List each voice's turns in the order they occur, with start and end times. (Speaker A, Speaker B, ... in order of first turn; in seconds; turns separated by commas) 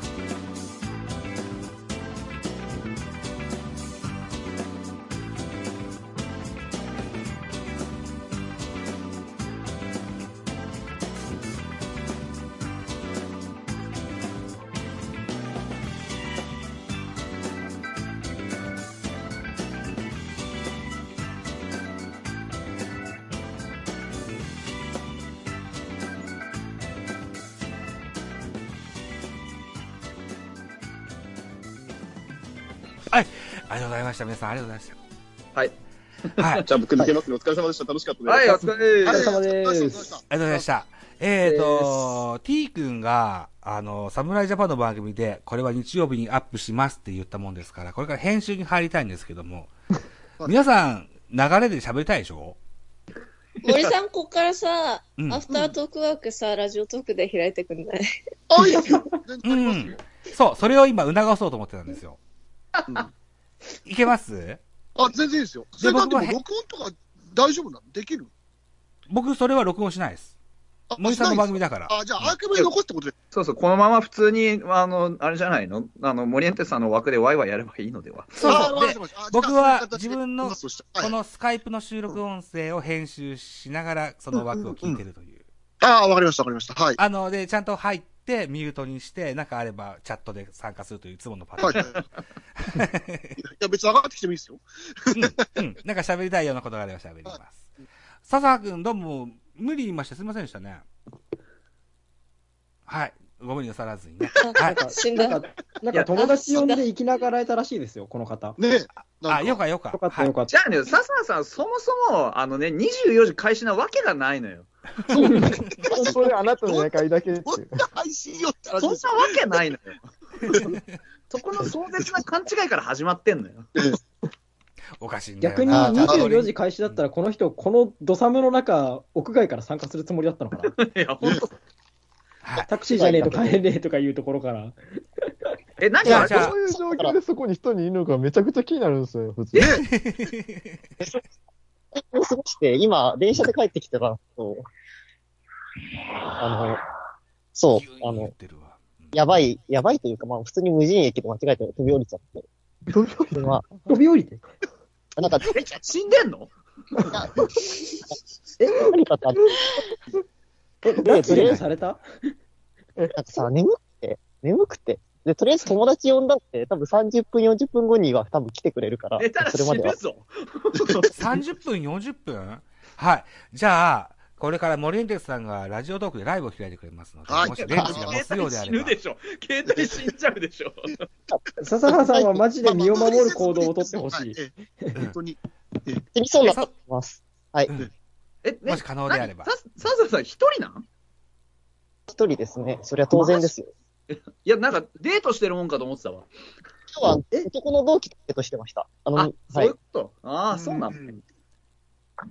Speaker A: 33.1-35.0, Speaker B: 36.3-36.6, Speaker C: 36.6-38.7, Speaker B: 38.3-39.3, Speaker D: 39.0-40.6, Speaker E: 39.1-40.2, Speaker A: 40.3-49.7, Speaker E: 41.4-42.2, Speaker A: 50.4-52.6, Speaker F: 53.6-58.1, Speaker A: 55.2-55.5, Speaker D: 58.5-59.9, Speaker E: 58.7-59.2, Speaker A: 59.4-62.2, Speaker B: 62.8-63.1, Speaker A: 63.9-64.6, Speaker D: 65.0-68.3, Speaker A: 65.8-66.4, Speaker A: 69.1-70.3, Speaker D: 70.9-73.1, Speaker A: 71.0-72.0, Speaker B: 73.3-78.8, Speaker D: 78.4-81.2, Speaker A: 78.5-85.5, Speaker D: 84.3-85.0, Speaker D: 85.8-87.0, Speaker A: 87.0-91.9, Speaker D: 91.6-92.0, Speaker B: 91.7-92.0, Speaker A: 92.6-93.3, Speaker D: 93.4-95.6, Speaker A: 95.2-97.7, Speaker A: 98.3-100.9, Speaker A: 102.9-104.8, Speaker F: 104.4-105.4, Speaker E: 104.6-108.6, Speaker B: 105.9-106.6, Speaker F: 106.2-106.8, Speaker D: 108.6-109.7, Speaker A: 109.0-110.3, Speaker E: 109.9-110.5, Speaker B: 110.5-114.7, Speaker D: 115.1-119.6, Speaker G: 115.9-117.8, Speaker B: 118.8-120.0, Speaker A: 120.5-120.8, Speaker B: 121.3-123.7, Speaker A: 125.0-127.0, Speaker E: 125.4-130.8, Speaker D: 125.7-126.3, Speaker B: 130.7-131.5, Speaker A: 132.4-132.7, Speaker E: 132.7-134.8, Speaker H: 132.9-133.6, Speaker B: 135.8-136.6, Speaker G: 136.0-139.7, Speaker A: 136.1-136.5, Speaker H: 136.7-137.2, Speaker B: 139.5-139.8, Speaker A: 139.8-140.8, Speaker H: 142.0-144.6, Speaker H: 146.4-146.8, Speaker H: 147.6-148.3, Speaker A: 147.7-149.2, Speaker H: 149.1-152.4, Speaker H: 153.3-153.7, Speaker E: 153.9-154.4, Speaker H: 155.2-155.5, Speaker B: 155.6-156.5, Speaker H: 157.1-157.4, Speaker H: 158.6-159.6, Speaker E: 160.8-162.0, Speaker H: 161.0-161.6, Speaker H: 163.2-170.0, Speaker B: 169.2-171.1, Speaker A: 171.2-179.0, Speaker D: 177.3-178.2, Speaker B: 177.7-181.0, Speaker D: 179.7-180.0, Speaker E: 181.6-185.0, Speaker H: 182.0-182.4, Speaker D: 182.6-186.0, Speaker H: 186.1-187.8, Speaker B: 188.4-190.8, Speaker A: 188.6-189.5, Speaker H: 192.1-193.7, Speaker B: 193.2-193.5, Speaker B: 194.1-196.3, Speaker H: 196.9-199.7, Speaker B: 199.2-201.2, Speaker D: 200.5-200.9